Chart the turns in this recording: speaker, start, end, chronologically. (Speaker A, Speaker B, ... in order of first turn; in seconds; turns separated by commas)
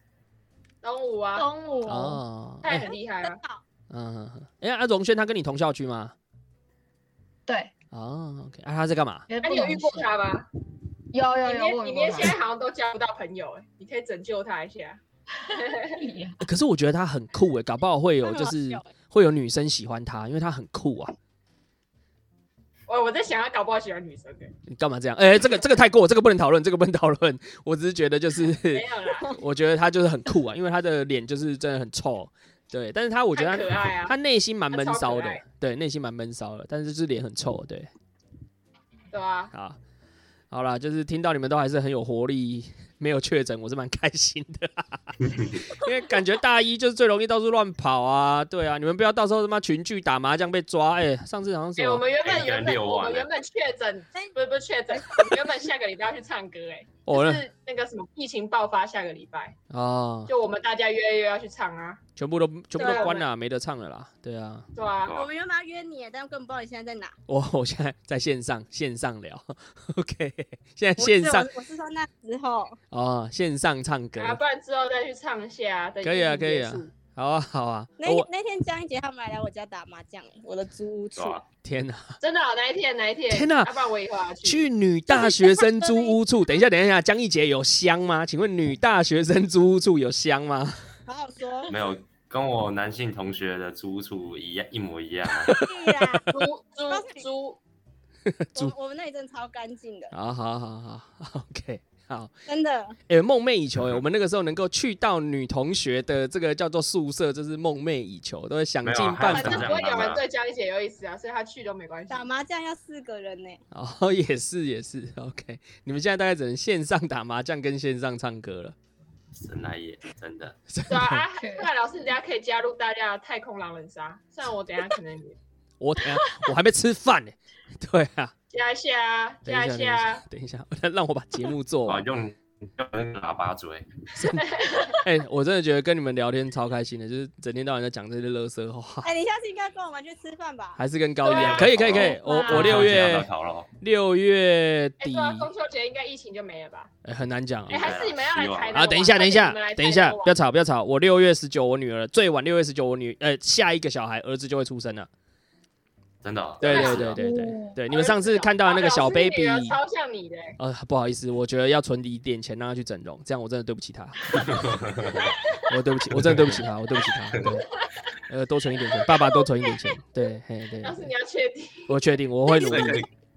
Speaker A: 0.8-1.5, Speaker B: 1.4-2.2, Speaker C: 1.9-2.9, Speaker A: 2.6-3.4, Speaker D: 3.2-3.6, Speaker C: 3.9-6.2, Speaker B: 7.5-7.7, Speaker C: 7.9-9.3, Speaker B: 9.3-10.2, Speaker A: 9.4-10.5, Speaker B: 11.1-12.4, Speaker A: 11.4-15.0, Speaker A: 15.5-16.1, Speaker B: 15.9-16.4, Speaker C: 16.4-21.1, Speaker D: 18.2-18.9, Speaker A: 22.9-24.5, Speaker C: 24.7-37.9, Speaker A: 28.7-29.4, Speaker A: 33.3-34.1, Speaker A: 34.7-35.4, Speaker A: 39.1-39.5, Speaker C: 39.5-39.8, Speaker C: 40.5-45.2, Speaker C: 45.7-52.1, Speaker A: 51.8-59.6, Speaker E: 52.2-53.3, Speaker D: 54.9-55.3, Speaker C: 57.1-57.4, Speaker C: 59.7-60.3, Speaker A: 60.3-62.0, Speaker C: 62.2-64.7, Speaker D: 62.8-63.2, Speaker A: 62.8-63.3, Speaker A: 64.8-65.1, Speaker D: 65.1-67.2, Speaker C: 67.3-71.5, Speaker D: 71.0-72.8, Speaker C: 72.9-74.4, Speaker A: 74.2-76.9, Speaker C: 76.0-78.3, Speaker D: 78.0-81.4, Speaker E: 81.2-81.5, Speaker C: 81.6-82.2, Speaker A: 82.2-84.7, Speaker C: 83.3-83.7, Speaker C: 84.4-90.8, Speaker D: 85.1-86.2, Speaker D: 91.1-91.7, Speaker E: 91.7-95.6, Speaker D: 95.5-96.3, Speaker A: 96.3-97.6, Speaker D: 96.9-97.3, Speaker C: 98.3-98.7, Speaker D: 98.5-100.1, Speaker C: 100.1-102.3, Speaker D: 102.5-103.0, Speaker C: 103.1-109.7, Speaker E: 108.8-110.2, Speaker A: 109.3-112.3, Speaker D: 112.1-113.6, Speaker C: 113.7-118.8, Speaker E: 119.3-120.6, Speaker C: 120.7-121.2, Speaker A: 120.9-125.4, Speaker B: 121.4-121.7, Speaker C: 125.8-128.3, Speaker A: 128.5-130.2, Speaker C: 129.4-132.1, Speaker E: 131.9-133.9, Speaker C: 134.2-139.1, Speaker A: 134.3-135.0, Speaker D: 139.0-140.8, Speaker C: 140.8-143.3, Speaker A: 141.2-142.9, Speaker E: 141.3-143.7, Speaker C: 143.8-145.5, Speaker A: 145.0-146.9, Speaker C: 147.1-147.8, Speaker E: 147.7-149.0, Speaker A: 147.7-150.3, Speaker C: 148.7-155.1, Speaker E: 156.2-157.2, Speaker C: 156.6-159.8, Speaker A: 156.6-157.1, Speaker B: 157.2-157.8, Speaker A: 157.9-160.6, Speaker C: 160.6-164.4, Speaker E: 164.4-165.3, Speaker C: 165.7-167.7, Speaker E: 166.2-166.6, Speaker C: 168.3-171.1, Speaker A: 168.9-169.8, Speaker A: 170.8-172.0, Speaker C: 171.9-173.1, Speaker E: 172.7-173.1